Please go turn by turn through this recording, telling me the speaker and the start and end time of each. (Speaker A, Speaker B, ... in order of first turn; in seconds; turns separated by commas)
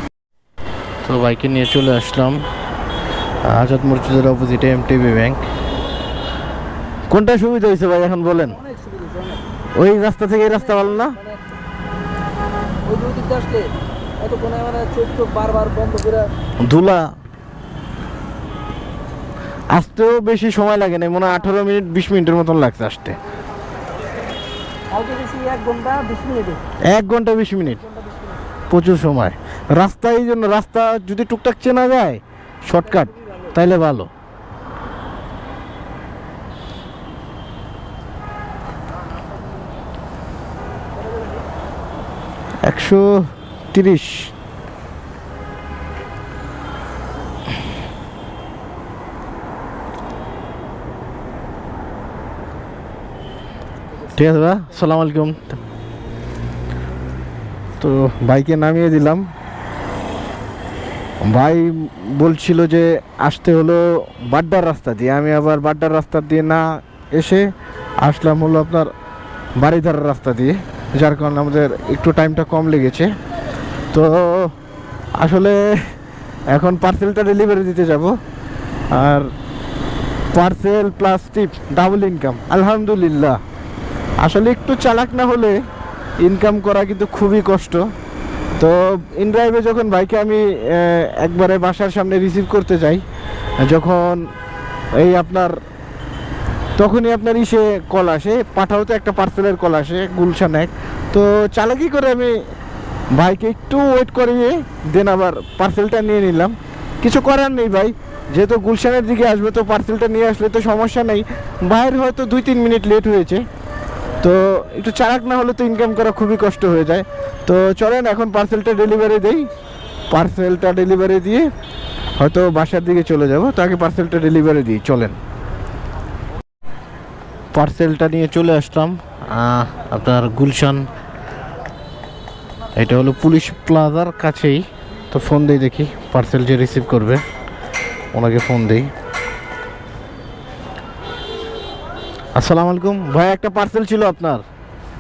Speaker A: 1.0-2.5, Speaker A: 3.4-5.5, Speaker A: 7.1-8.6, Speaker B: 8.7-9.4, Speaker A: 9.8-11.2, Speaker B: 10.7-11.4, Speaker B: 12.9-16.3, Speaker A: 16.6-17.1, Speaker A: 19.7-23.2, Speaker B: 24.9-26.6, Speaker A: 26.9-27.9, Speaker B: 28.0-28.4, Speaker A: 28.7-34.1, Speaker A: 42.6-44.3, Speaker A: 54.1-55.5, Speaker A: 57.8-59.3, Speaker A: 61.2-67.5, Speaker A: 68.0-68.9, Speaker A: 69.6-73.1, Speaker A: 73.9-74.5, Speaker A: 75.2-76.0, Speaker A: 76.5-78.2, Speaker A: 78.9-79.3, Speaker A: 80.3-83.4, Speaker A: 84.2-85.6, Speaker A: 86.2-87.9, Speaker A: 88.6-93.0, Speaker A: 93.6-94.3, Speaker A: 95.0-95.6, Speaker A: 96.8-102.4, Speaker A: 103.1-113.4, Speaker A: 114.2-119.5, Speaker A: 120.1-121.5, Speaker A: 122.2-125.2, Speaker A: 127.5-130.9, Speaker A: 132.8-137.2, Speaker A: 138.1-138.9, Speaker A: 142.3-144.4